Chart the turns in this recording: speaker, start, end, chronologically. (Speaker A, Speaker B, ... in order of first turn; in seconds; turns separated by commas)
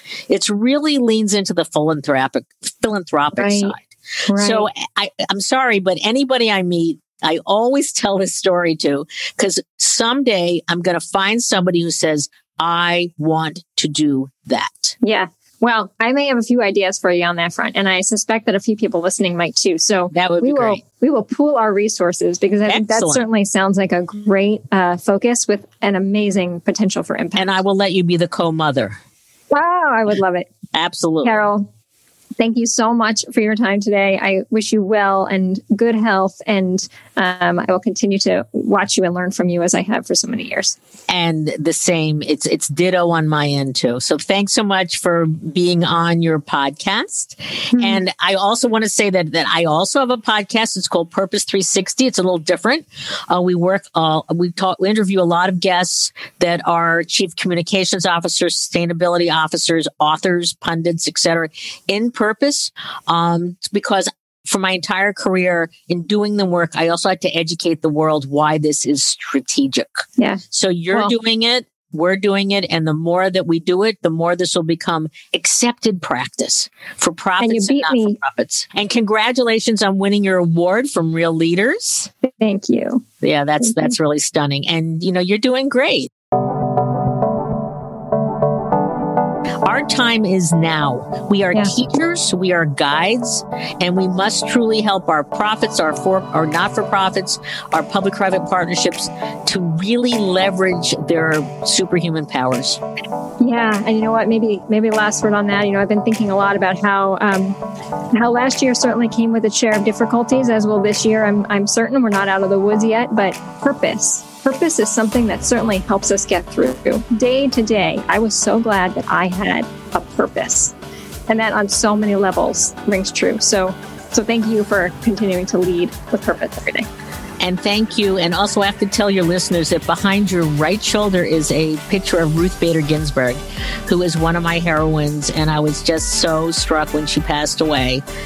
Speaker A: 0.3-15.0, Speaker B: 3.4-3.7, Speaker B: 4.3-4.7, Speaker B: 15.0-27.6, Speaker A: 20.1-20.8, Speaker A: 22.7-23.2, Speaker A: 27.4-29.0, Speaker B: 29.5-30.5, Speaker A: 30.7-31.5, Speaker B: 31.2-31.7, Speaker B: 32.4-40.8, Speaker A: 41.1-82.1, Speaker B: 47.8-48.0, Speaker B: 70.2-71.2, Speaker B: 77.4-78.2, Speaker B: 82.2-83.0, Speaker A: 83.2-86.1, Speaker B: 83.6-84.0, Speaker A: 89.7-102.8, Speaker B: 103.4-107.6, Speaker B: 108.1-120.8, Speaker B: 121.3-126.9, Speaker A: 127.4-138.0